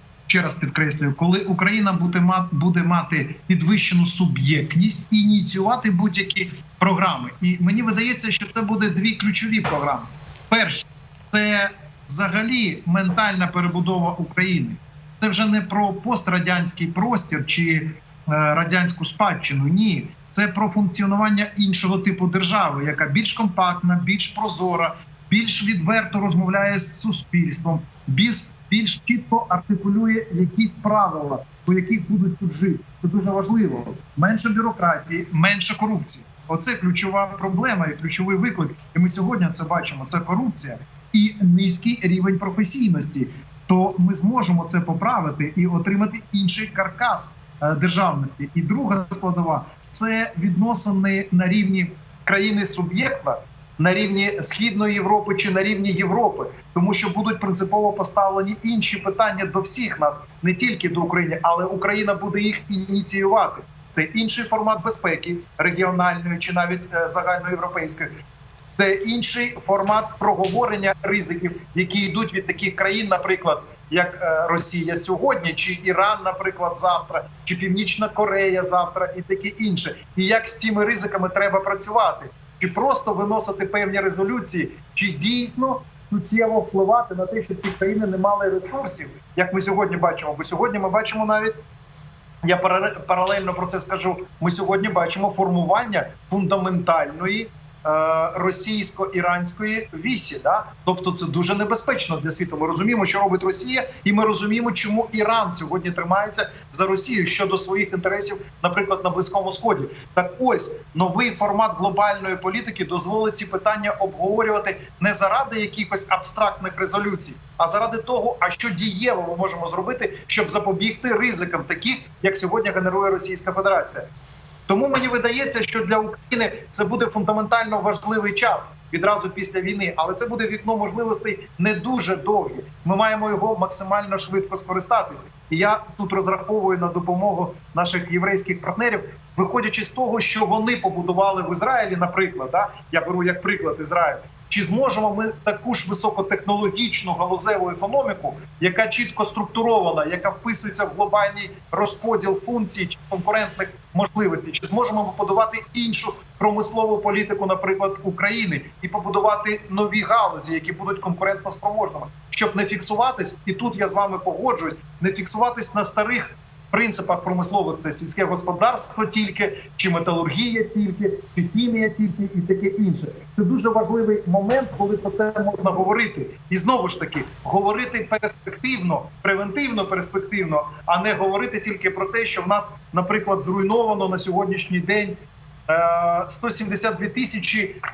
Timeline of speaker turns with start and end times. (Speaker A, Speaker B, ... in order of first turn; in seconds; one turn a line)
Speaker A: 0.3-68.1
Speaker A: 68.8-91.6
Speaker A: 92.4-124.1
Speaker A: 124.7-187.8